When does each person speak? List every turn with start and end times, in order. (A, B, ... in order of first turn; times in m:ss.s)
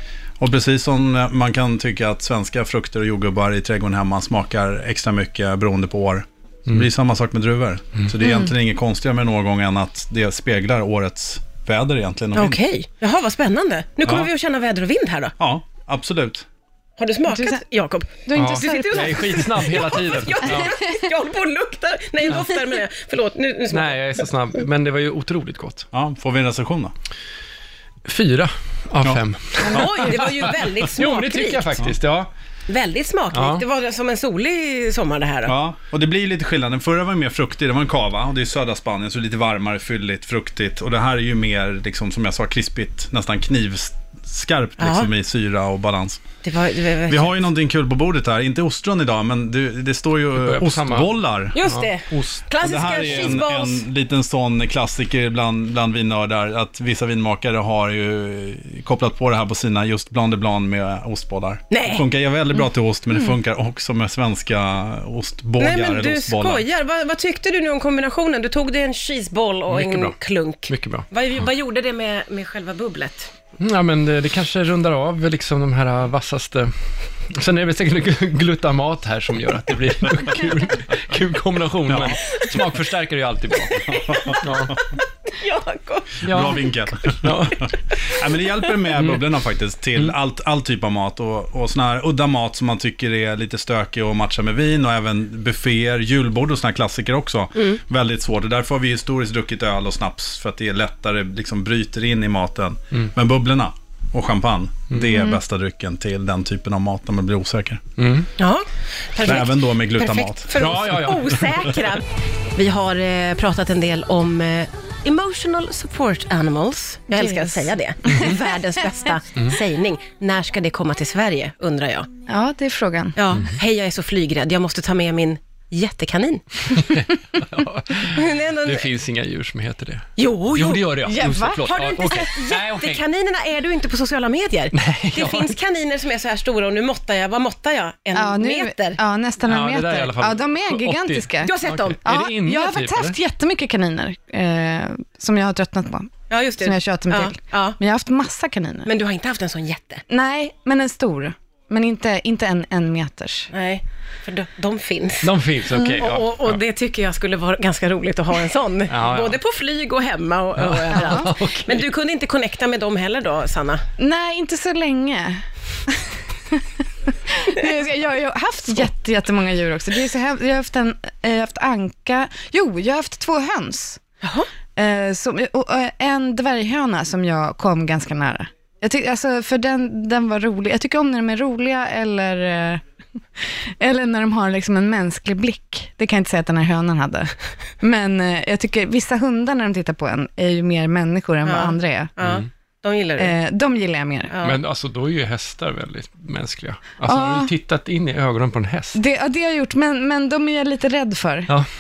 0:00.4-0:12.6 A
0:08.2-0:08.5 B
0:12.3-0:15.3 C
0:15.4-0:16.4 A
0:17.0-0:24.2 C
0:17.3-0:17.6 B
0:18.2-0:19.8 B
0:18.3-0:20.7 D
0:23.7-0:25.9 D
0:25.9-0:26.9 A
0:28.0-0:32.3 D
0:29.6-0:31.8 C
0:32.7-0:35.6 C
0:33.3-0:33.6 D
0:35.4-0:46.2 A
0:44.8-0:45.1 C
0:46.4-0:47.4 C
0:47.1-0:51.6 A
0:50.4-0:53.4 D
0:51.5-0:53.8 C
0:52.6-1:06.6 A
1:01.7-1:02.1 C
1:05.6-1:13.3 C
1:09.7-1:10.1 D
1:10.7-1:11.1 D
1:13.6-1:16.7 D
1:17.3-1:24.8 D
1:21.9-1:22.2 A
1:23.7-1:24.4 C
1:23.9-1:24.7 A
1:25.2-1:26.5 C
1:26.2-1:27.7 D
1:26.2-1:47.9 A
1:29.0-1:29.2 D
1:48.0-1:48.3 D
1:48.4-2:02.1 C
1:49.2-1:50.5 A
1:50.5-1:51.5 D
1:57.1-1:58.4 B
2:02.3-2:03.2 B
2:03.2-2:07.0 C
2:06.8-2:13.0 D
2:08.1-2:08.9 C
2:10.2-2:11.0 C
2:11.0-2:12.2 B
2:11.6-2:19.0 C
2:14.7-2:15.5 D
2:18.1-2:28.9 B
2:19.4-2:23.2 D
2:21.4-2:22.0 C
2:26.3-2:27.8 C
2:28.8-2:30.0 C
2:30.1-2:33.5 B
2:33.5-2:35.3 C
2:35.2-2:36.6 D
2:35.7-2:36.0 B
2:36.0-2:43.8 C
2:38.9-2:39.4 D
2:40.6-2:41.8 D
2:40.9-2:41.3 B
2:44.0-2:46.6 B
2:47.2-2:54.0 B
2:54.2-2:54.5 C
2:54.7-3:02.8 B
3:03.4-3:12.1 B
3:11.4-3:13.3 C
3:13.2-3:14.3 B
3:14.3-3:14.6 C
3:14.4-3:19.0 D
3:17.1-3:17.5 B
3:18.9-3:21.5 B